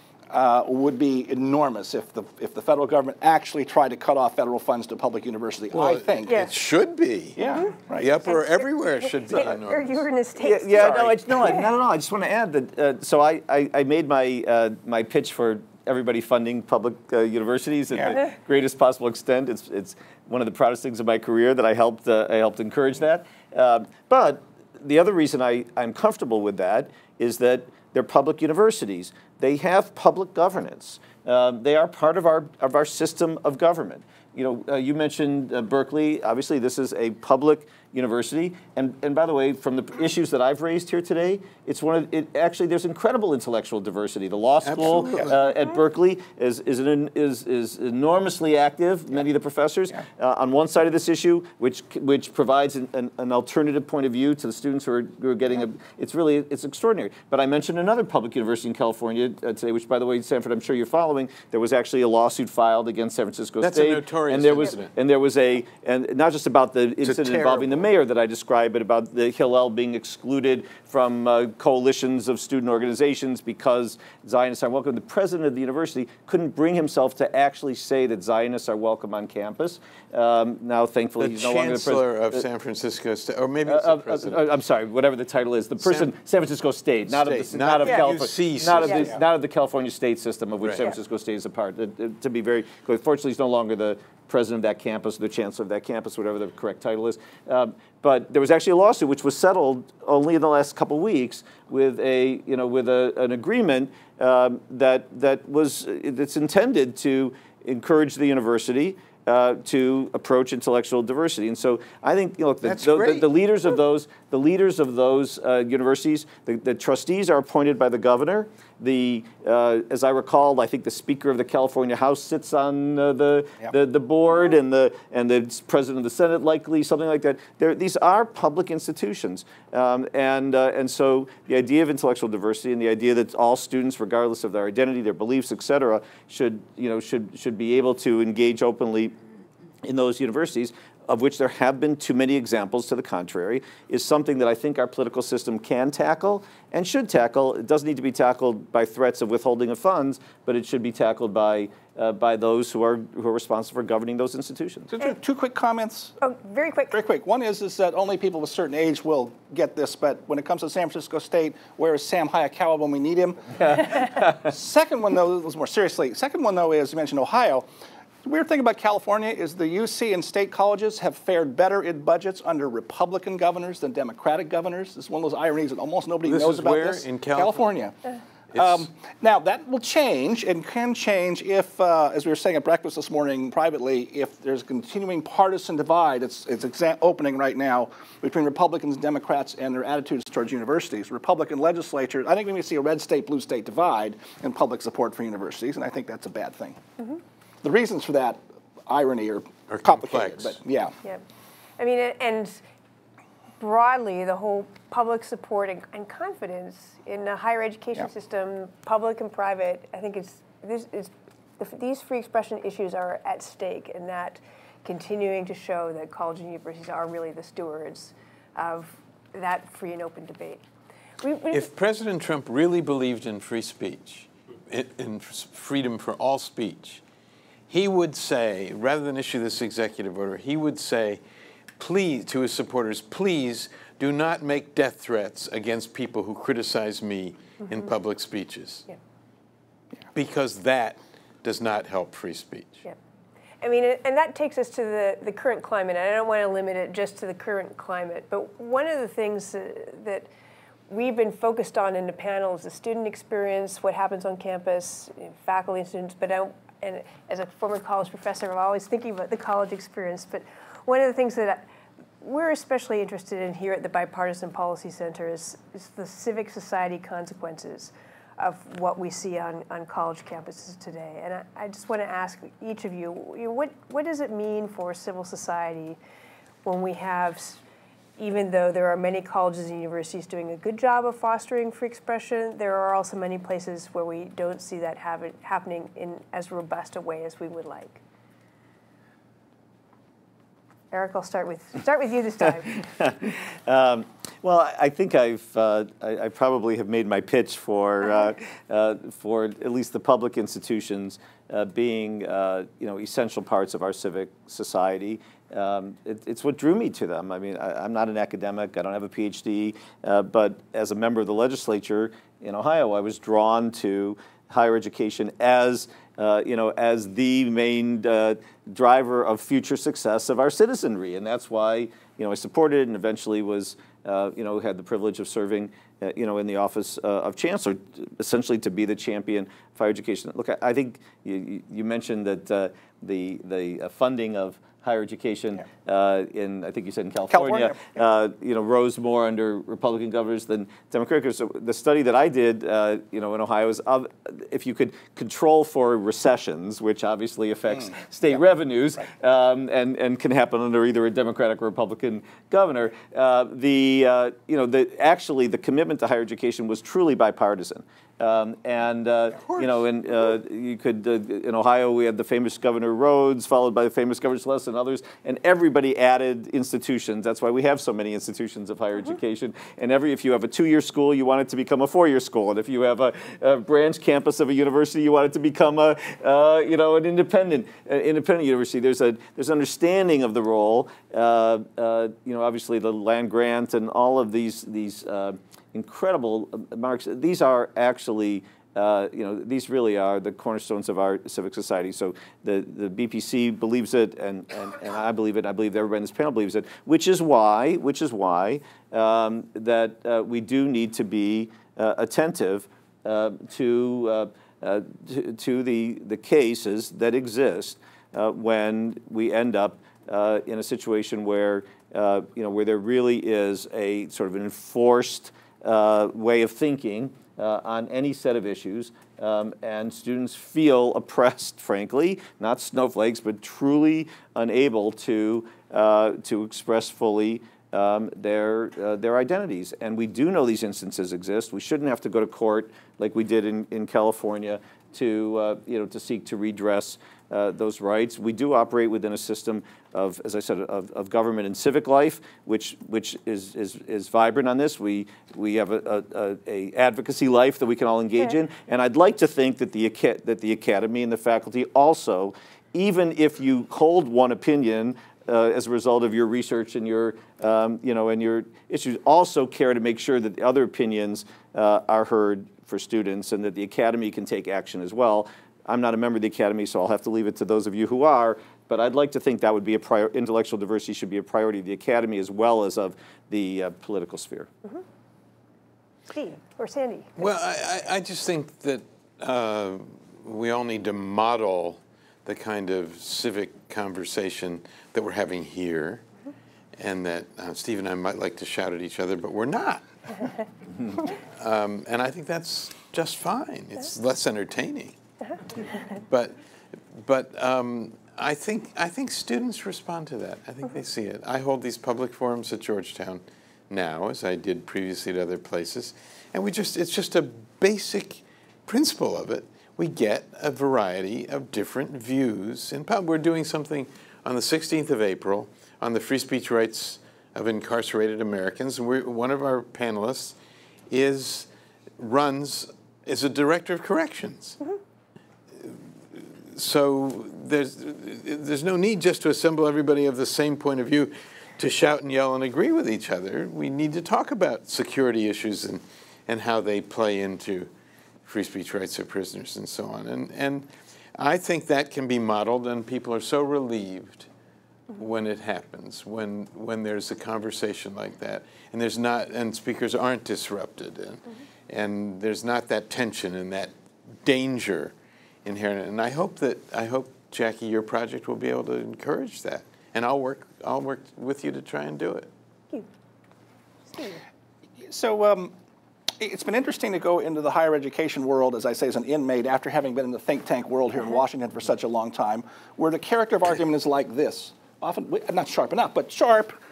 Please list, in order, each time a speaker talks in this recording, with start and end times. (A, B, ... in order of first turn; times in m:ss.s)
0:00.3-0:06.4 A
0:05.7-0:07.4 B
0:07.4-0:08.1 A
0:08.0-0:10.0 B
0:08.2-0:11.6 C
0:10.4-1:22.4 D
0:44.6-0:45.3 B
1:03.6-1:04.9 B
1:07.0-1:07.9 B
1:21.2-1:24.4 B
1:23.6-2:19.1 D
1:25.8-1:26.1 B
1:27.1-1:29.1 B
1:30.6-1:30.9 B
1:52.6-1:53.3 B
2:19.8-2:34.9 D
2:34.9-2:36.2 A
2:36.2-2:36.9 C
2:36.9-2:47.6 A
2:48.2-2:57.9 A
2:56.2-2:57.6 B
2:58.5-2:58.9 B
2:58.5-3:16.8 A
3:17.6-3:20.9 A
3:19.7-3:20.6 B
3:21.8-3:22.6 C
3:23.6-3:40.6 C
3:41.2-3:41.7 C
3:41.5-3:47.0 B
3:47.7-3:51.2 B
3:51.8-3:58.8 B
4:00.1-4:02.8 B
4:03.6-4:10.3 C
4:10.9-4:21.7 C
4:22.2-4:36.0 C
4:36.6-4:37.6 C
4:38.2-4:48.0 C
4:50.9-4:53.1 C
4:52.7-7:54.5 D
5:37.3-5:38.0 A
7:56.1-7:57.1 C
7:57.2-8:06.0 B
8:06.8-8:10.2 B
8:11.0-8:15.0 B
8:15.9-8:16.4 B
8:16.9-8:40.4 B
8:40.9-8:44.6 B
8:45.6-8:57.7 B
8:58.2-9:04.3 B
9:05.0-9:13.7 B
9:14.2-9:14.9 B
9:15.4-9:22.3 B
9:23.9-9:24.2 C
9:24.8-9:25.5 A
9:26.2-9:36.5 A